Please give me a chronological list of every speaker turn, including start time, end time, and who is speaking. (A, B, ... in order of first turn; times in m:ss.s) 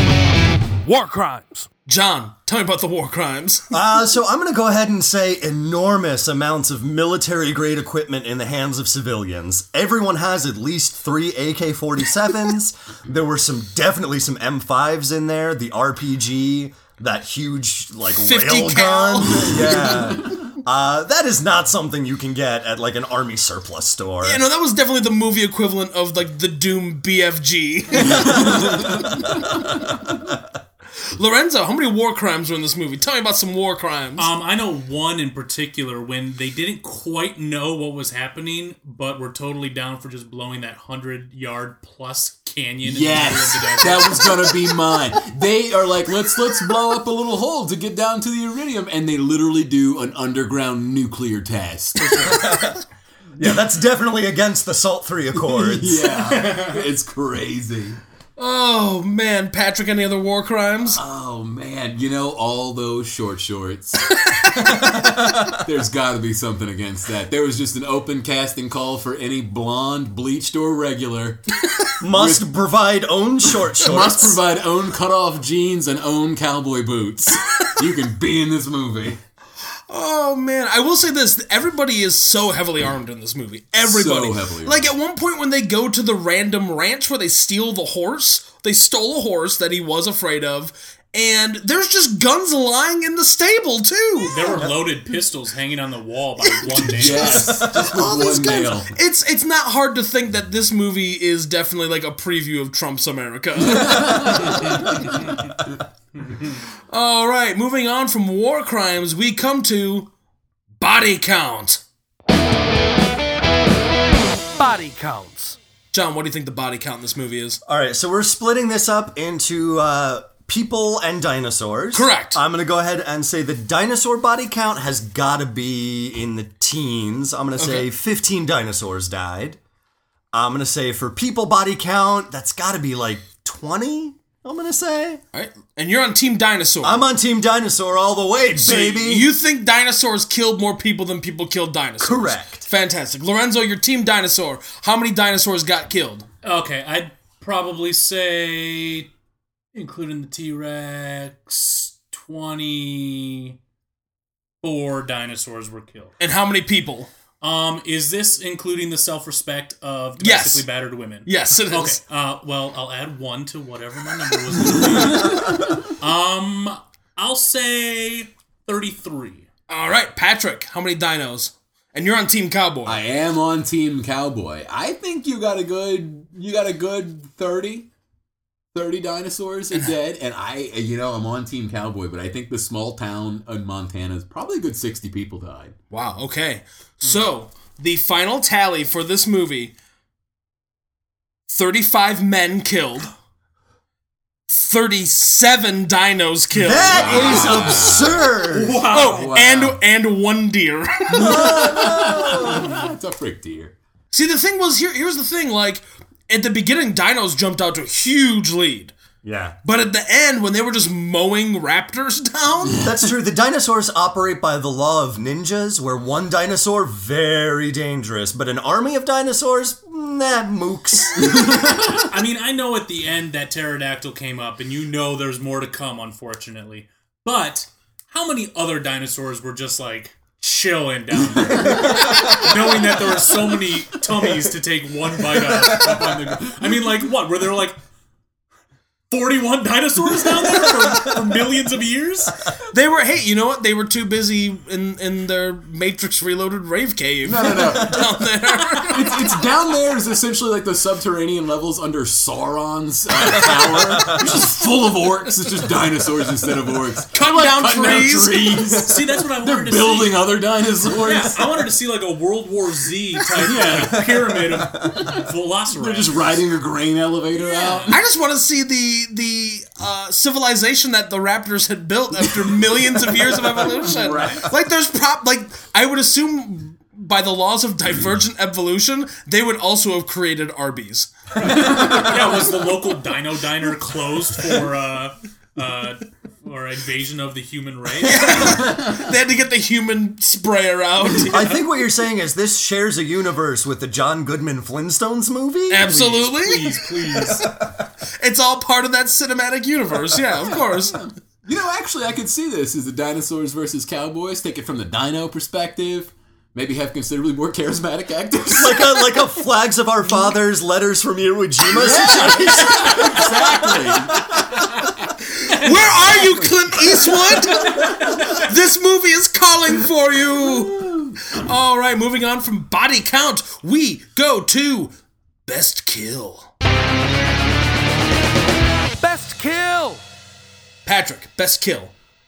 0:00.8-0:03.7 A
0:03.7-0:24.4 B
0:18.2-0:20.2 A
0:24.2-0:29.6 A
0:28.0-0:29.0 C
0:31.1-0:34.3 A
0:34.2-0:44.6 D
0:42.8-0:52.5 C
0:52.0-0:52.7 A
0:52.2-0:52.8 B
0:53.4-0:56.1 B
0:55.5-0:58.0 C
0:56.1-0:56.8 D
0:58.4-1:01.0 A
1:00.9-1:12.4 C
1:04.2-1:05.0 A
1:12.0-1:14.4 B
1:13.8-1:19.2 C
1:19.9-1:34.4 A
1:23.8-1:24.9 C
1:34.2-1:37.6 D
1:36.5-1:45.2 A
1:36.7-1:38.9 C
1:43.6-1:44.7 C
1:46.9-1:50.1 A
1:50.8-1:51.8 A
1:54.6-1:57.6 A
1:57.7-2:09.6 B
2:01.9-2:02.4 A
2:07.6-2:07.9 A
2:10.3-2:15.2 B
2:15.3-2:17.0 A
2:16.8-2:19.3 B
2:18.6-2:26.3 A
2:22.0-2:22.7 B
2:26.4-2:29.1 D
2:29.7-2:33.6 D
2:34.6-2:36.1 D
2:36.2-2:37.1 A
2:37.4-2:49.5 D
2:40.2-2:40.7 A
2:41.2-2:42.0 A
2:49.7-2:53.0 A
2:52.9-2:57.9 C
2:58.7-3:05.8 C
3:05.9-3:09.7 A
3:11.5-3:13.1 A
3:14.5-3:17.9 A
3:16.5-3:18.8 B
3:16.8-3:18.4 C
3:17.0-3:17.8 D
3:18.4-3:19.3 D
3:18.9-3:22.0 A
3:18.9-3:19.8 C
3:21.1-3:23.8 C
3:21.2-3:22.8 B
3:24.1-3:28.9 A
3:29.2-3:29.6 B
3:29.6-3:32.8 A
3:32.8-3:41.6 B
3:41.2-3:42.0 C
3:41.9-3:57.8 D
3:51.6-3:52.3 C
3:51.9-3:52.2 B
3:59.1-4:02.5 D
4:02.7-4:09.4 A
4:07.2-4:08.2 C
4:07.6-4:08.1 B
4:08.8-4:21.5 C
4:13.6-4:14.2 B
4:17.1-4:18.7 A
4:18.6-4:26.2 D
4:23.4-4:28.0 C
4:27.4-4:27.9 D
4:27.9-4:41.1 A
4:32.7-4:34.5 C
4:41.4-4:48.6 D
4:41.4-4:42.4 C
4:48.0-4:51.6 A
4:51.2-4:55.9 B
4:55.7-4:57.4 A
4:55.8-4:57.4 D
4:57.2-4:57.7 B
4:58.2-5:01.0 A
5:00.3-5:09.2 C
5:08.6-5:14.7 B
5:11.7-5:14.5 C
5:12.4-5:13.0 A
5:15.4-5:24.9 A
5:16.1-5:16.5 C
5:17.6-5:18.4 D
5:20.4-5:21.2 C
5:25.5-5:26.5 A
5:29.0-5:30.0 A
5:30.9-5:31.9 A